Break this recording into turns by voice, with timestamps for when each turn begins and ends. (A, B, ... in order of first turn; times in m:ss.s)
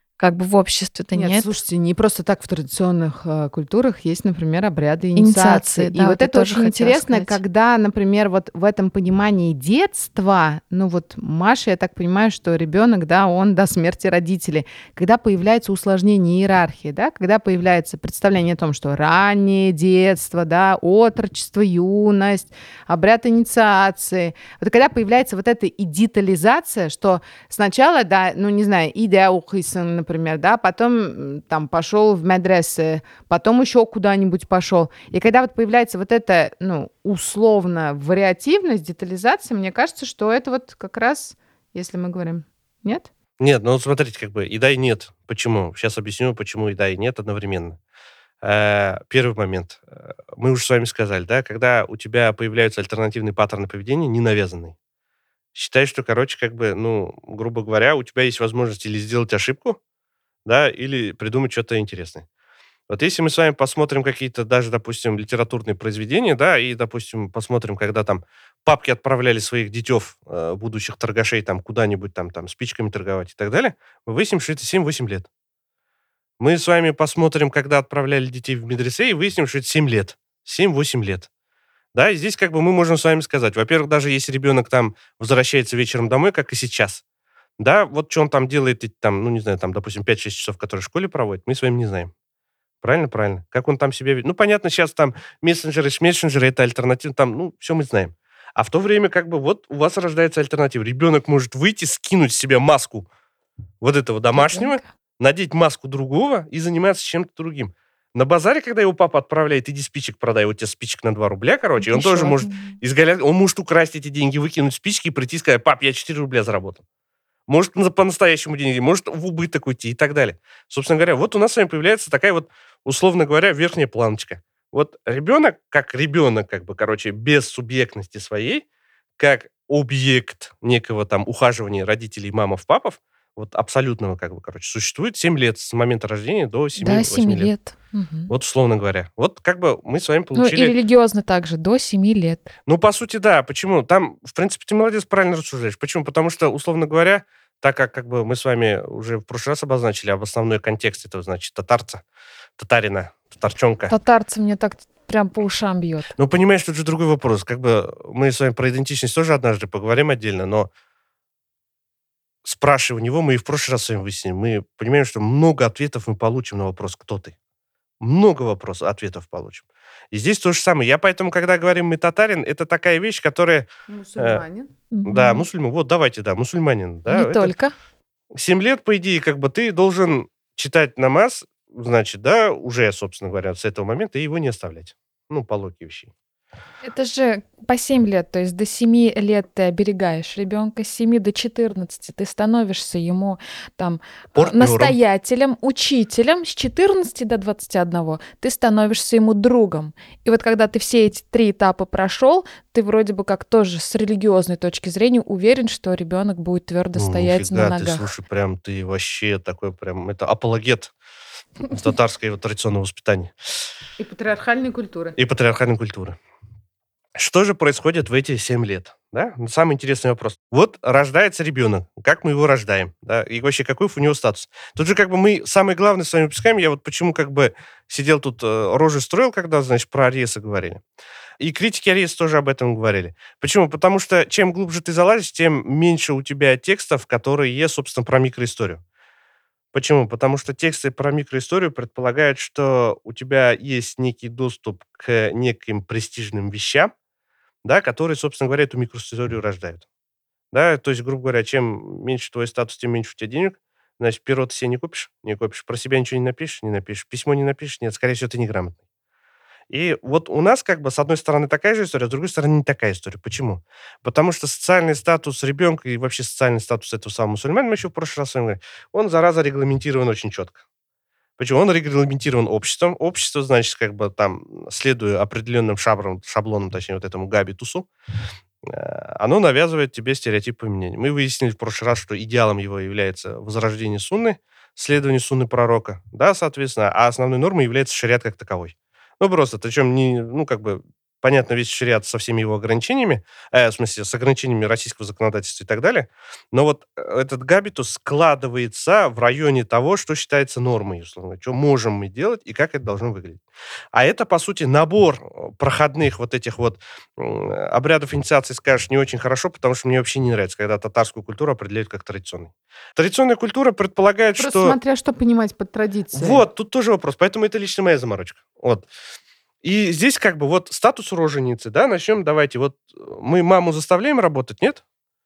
0:00.2-0:01.6 A
0:01.1-0:43.1 B
0:05.2-0:07.4 A
0:43.4-0:47.8 C
0:48.4-0:54.8 C
0:55.5-0:59.8 C
1:00.4-1:02.2 C
1:02.9-1:15.3 C
1:16.4-1:21.3 C
1:21.9-1:27.0 C
1:27.6-1:32.1 C
1:32.8-1:43.1 C
1:43.8-1:56.8 C
1:44.3-1:44.8 D
1:51.9-1:52.7 D
1:57.5-2:08.6 C
2:09.2-2:17.5 C
2:16.8-2:18.3 D
2:18.3-2:20.7 C
2:20.3-2:22.5 D
2:22.6-2:32.0 C
2:32.6-2:33.9 C
2:33.9-2:36.1 D
2:36.2-2:40.7 C
2:42.4-2:47.3 C
2:48.0-2:54.4 C
2:53.9-2:54.7 B
2:54.9-2:55.4 A
2:55.0-2:57.5 C
2:57.1-2:57.7 D
2:58.3-3:06.1 C
3:06.8-3:28.1 D
3:14.3-3:15.0 C
3:26.9-3:30.9 C
3:31.7-3:33.6 C
3:34.0-3:35.2 B
3:35.2-3:36.2 C
3:37.1-3:50.8 C
3:51.4-3:58.8 C
3:59.7-4:06.9 C
4:07.6-4:09.8 C
4:10.5-4:18.8 C
4:19.7-4:30.6 C
4:31.4-4:37.9 C
4:38.6-5:14.8 C
5:14.4-5:16.4 B
5:16.1-5:18.9 C
5:19.6-5:24.8 C